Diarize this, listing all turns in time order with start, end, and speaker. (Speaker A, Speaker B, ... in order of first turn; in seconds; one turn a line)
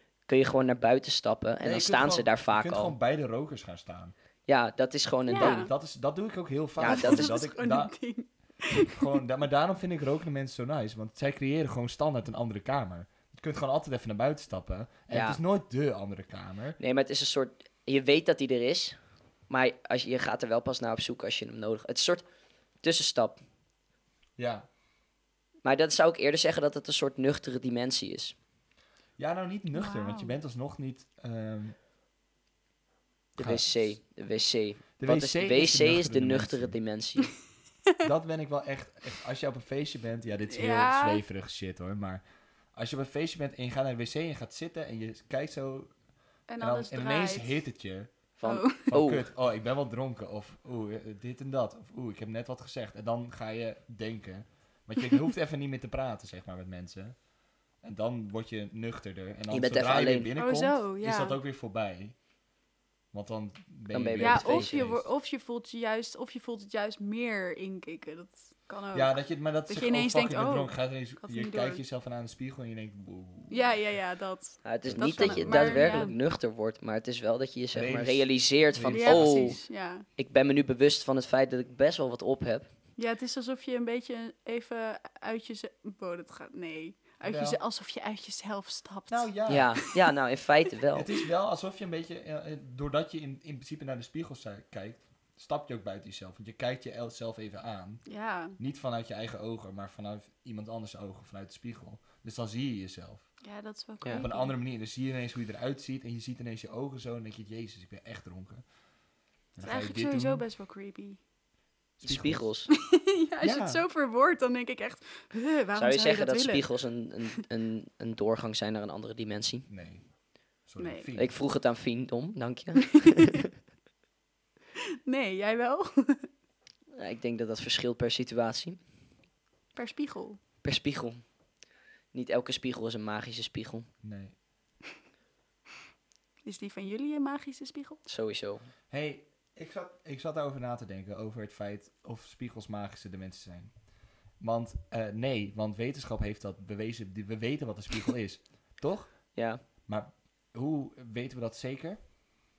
Speaker A: 0.3-3.0
Speaker B: 1.6-4.1
Speaker A: 4.5-5.7
Speaker C: 5.3-5.7
Speaker B: 5.3-7.9
Speaker A: 6.8-7.4
Speaker C: 6.8-9.2
Speaker B: 8.8-16.8
Speaker A: 15.1-15.4
Speaker A: 16.8-19.0
Speaker A: 19.5-22.3
Speaker A: 22.8-23.4
Speaker B: 24.4-24.7
Speaker A: 25.6-28.4
Speaker B: 29.2-31.8
Speaker C: 29.7-30.4
Speaker B: 33.4-34.0
Speaker A: 33.4-37.3
Speaker B: 35.0-36.8
Speaker B: 38.0-42.2
Speaker C: 40.5-41.2
Speaker B: 42.7-45.9
Speaker C: 46.5-47.6
Speaker B: 46.6-48.1
Speaker A: 48.4-49.3
Speaker C: 48.4-48.9
Speaker B: 48.9-57.2
Speaker B: 57.8-62.2
Speaker A: 59.5-60.3
Speaker C: 60.4-61.4
Speaker B: 63.1-65.1
Speaker A: 63.9-64.8
Speaker C: 64.2-71.8
Speaker B: 68.9-73.6
Speaker C: 73.5-76.2
Speaker A: 74.6-79.6
Speaker B: 74.8-76.0
Speaker B: 77.7-79.6
Speaker C: 78.9-80.1
Speaker A: 80.2-82.7
Speaker C: 83.0-90.1
Speaker B: 87.2-87.6
Speaker B: 89.1-89.8
Speaker A: 89.5-91.1
Speaker B: 91.0-98.0
Speaker C: 98.1-98.6
Speaker B: 98.6-103.3
Speaker C: 103.4-104.5
Speaker B: 104.1-108.6
Speaker B: 109.5-110.5
Speaker C: 109.6-111.2
Speaker B: 112.0-112.5
Speaker A: 112.0-112.7
Speaker C: 112.8-116.7
Speaker B: 113.4-113.8
Speaker A: 115.8-119.7
Speaker B: 119.7-120.1
Speaker B: 120.6-121.3
Speaker C: 120.8-121.1
Speaker A: 121.2-123.5
Speaker C: 125.1-126.3
Speaker A: 127.0-128.8
Speaker C: 129.8-130.4
Speaker A: 130.6-131.2
Speaker A: 132.1-133.9
Speaker B: 134.0-134.3
Speaker C: 136.4-138.0
Speaker A: 138.1-138.7
Speaker B: 138.9-143.7
Speaker B: 144.4-152.0
Speaker A: 149.3-149.6